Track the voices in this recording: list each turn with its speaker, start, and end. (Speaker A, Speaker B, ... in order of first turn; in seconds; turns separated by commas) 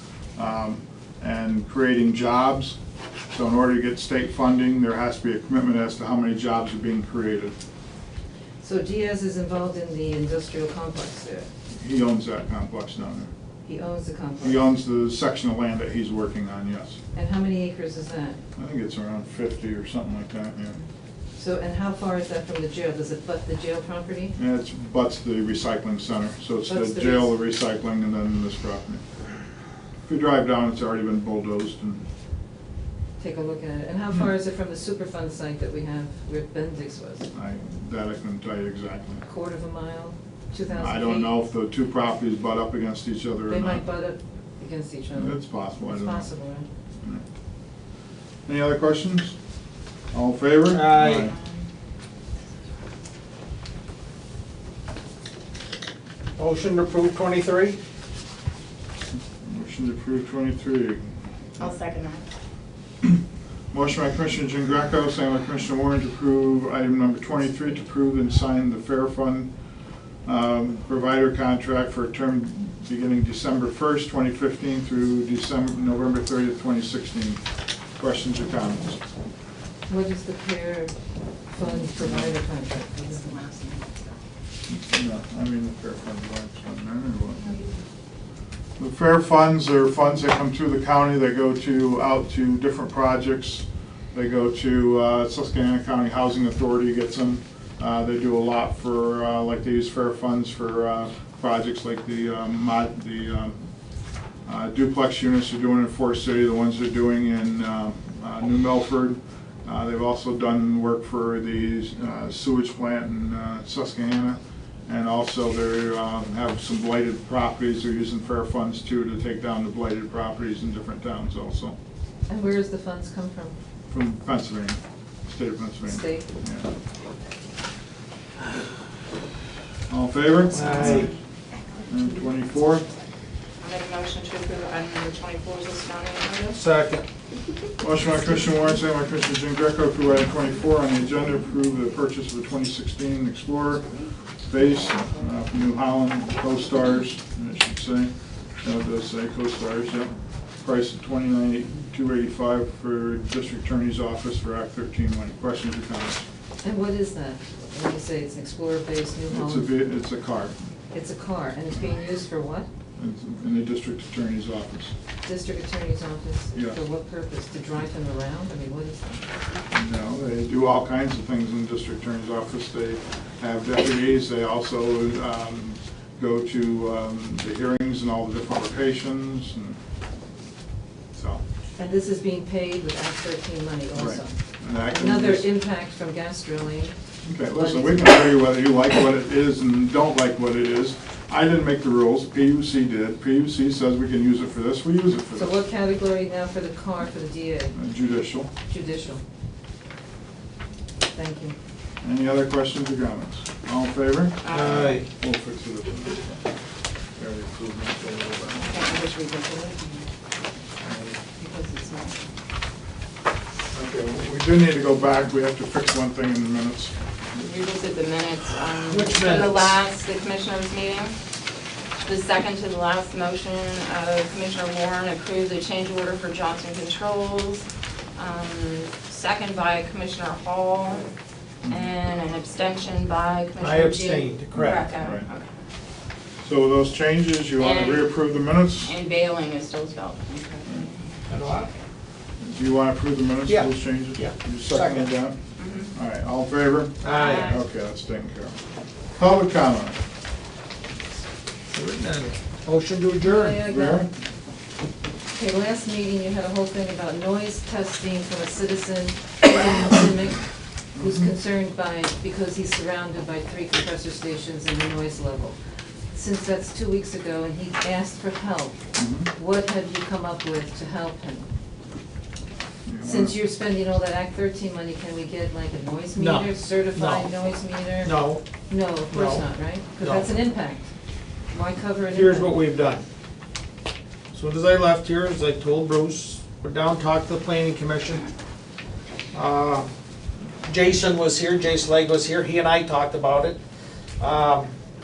Speaker A: 0.4-2.8, Speaker A: 3.3-7.6, Speaker B: 8.6-11.5, Speaker A: 11.7-13.3, Speaker B: 13.7-14.7, Speaker A: 14.4-17.0, Speaker B: 17.1-18.4, Speaker A: 18.6-20.8, Speaker B: 21.4-24.4, Speaker A: 24.4-29.1, Speaker B: 26.7-27.4, Speaker A: 30.0-32.0, Speaker B: 33.2-37.3, Speaker A: 37.3-39.2, Speaker B: 39.2-41.4, Speaker A: 40.7-43.9, Speaker B: 43.5-46.7, Speaker A: 45.1-46.3, Speaker A: 48.5-49.4, Speaker A: 50.1-51.4, Speaker C: 50.7-51.3, Speaker D: 51.3-51.6, Speaker C: 56.4-57.8, Speaker A: 59.4-61.1, Speaker D: 61.6-62.2, Speaker A: 63.7-69.5, Speaker A: 70.2-79.0, Speaker B: 79.9-81.0, Speaker B: 81.5-83.3, Speaker A: 81.6-82.4, Speaker D: 83.1-84.0, Speaker A: 84.7-87.5, Speaker A: 88.8-103.6, Speaker A: 104.5-121.8, Speaker B: 122.3-123.6, Speaker A: 123.9-126.7, Speaker B: 125.9-126.3, Speaker A: 129.9-131.1, Speaker C: 130.5-131.1, Speaker D: 130.8-131.2, Speaker A: 131.9-132.9, Speaker D: 133.6-136.6, Speaker C: 136.6-137.0, Speaker A: 137.8-143.9, Speaker A: 144.4-156.3, Speaker B: 156.6-159.8, Speaker A: 159.3-160.6, Speaker B: 160.9-162.7, Speaker A: 163.0-164.9, Speaker B: 165.2-169.2, Speaker A: 166.5-166.8, Speaker A: 169.7-179.8, Speaker A: 181.1-181.4, Speaker B: 181.8-186.9, Speaker A: 183.9-185.5, Speaker A: 187.2-195.5, Speaker B: 187.5-188.2, Speaker B: 195.3-197.8, Speaker A: 197.7-198.5, Speaker B: 198.7-199.2, Speaker B: 201.1-201.6, Speaker A: 202.0-206.5, Speaker D: 204.4-205.0, Speaker C: 204.5-205.1, Speaker A: 207.2-208.8, Speaker D: 208.6-210.1, Speaker A: 210.8-211.2, Speaker B: 211.4-212.2, Speaker A: 213.7-216.9, Speaker D: 217.4-221.2, Speaker C: 218.9-219.7, Speaker D: 222.0-227.7, Speaker D: 228.2-231.1, Speaker D: 231.7-235.6, Speaker C: 233.6-234.9, Speaker A: 234.5-235.3, Speaker A: 236.4-238.9, Speaker D: 237.6-238.1, Speaker D: 238.8-241.2, Speaker C: 241.3-241.7, Speaker A: 242.4-248.6, Speaker C: 243.5-245.1, Speaker D: 245.6-245.9, Speaker C: 247.0-247.5, Speaker D: 247.0-247.6, Speaker A: 249.2-250.0, Speaker C: 251.7-253.6, Speaker B: 253.2-254.1, Speaker A: 253.7-254.1, Speaker B: 255.3-265.6, Speaker A: 261.0-261.3, Speaker B: 266.1-271.5, Speaker A: 269.0-269.3, Speaker A: 272.9-273.4, Speaker B: 273.0-278.2, Speaker C: 276.2-277.3, Speaker C: 278.0-278.4, Speaker B: 278.7-280.9, Speaker C: 279.1-280.3, Speaker B: 281.5-282.6, Speaker C: 282.1-283.1, Speaker C: 284.3-288.3, Speaker C: 289.3-289.9, Speaker C: 290.6-293.6, Speaker C: 294.2-294.7